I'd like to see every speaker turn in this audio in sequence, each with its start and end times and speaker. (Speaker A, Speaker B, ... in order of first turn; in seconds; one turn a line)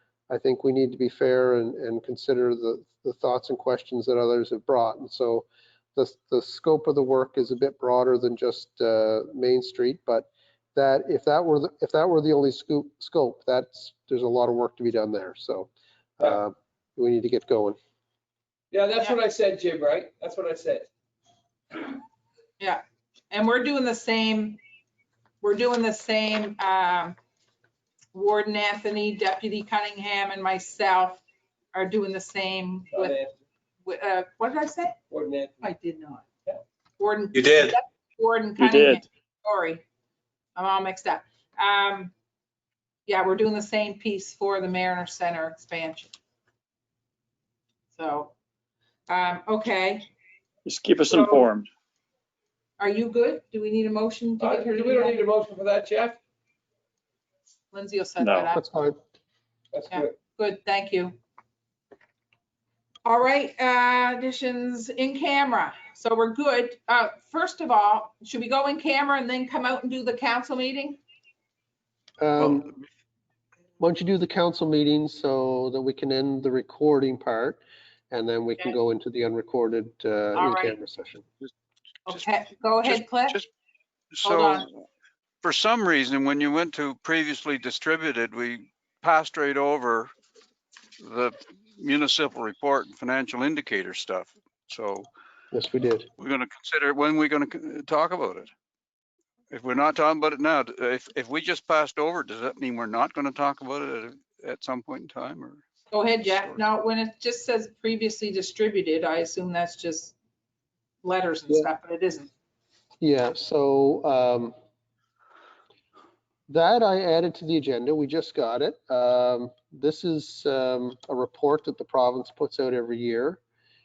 Speaker A: 0.3-17.8
Speaker B: 18.7-20.9
Speaker C: 22.6-24.6
Speaker C: 25.4-27.2
Speaker C: 28.1-33.2
Speaker B: 32.9-33.3
Speaker C: 33.8-35.0
Speaker B: 35.1-35.7
Speaker C: 35.6-36.2
Speaker C: 37.0-39.8
Speaker D: 38.6-39.0
Speaker C: 40.5-42.1
Speaker C: 43.0-46.1
Speaker C: 47.9-48.3
Speaker C: 49.1-50.1
Speaker D: 50.6-51.7
Speaker B: 51.1-51.5
Speaker C: 52.8-55.2
Speaker B: 54.4-56.2
Speaker C: 57.7-58.6
Speaker D: 58.2-58.5
Speaker A: 58.5-59.0
Speaker B: 59.7-60.1
Speaker C: 59.9-61.1
Speaker C: 63.0-71.0
Speaker A: 72.2-72.7
Speaker A: 73.8-81.2
Speaker C: 80.3-80.7
Speaker C: 82.1-83.4
Speaker E: 82.8-83.5
Speaker E: 84.1-84.8
Speaker C: 84.2-84.7
Speaker E: 85.4-90.1
Speaker E: 91.0-95.1
Speaker A: 95.5-96.1
Speaker E: 96.2-98.5
Speaker E: 99.5-105.6
Speaker C: 105.9-110.2
Speaker C: 111.0-112.3
Speaker A: 113.0-114.5
Speaker A: 116.5-123.4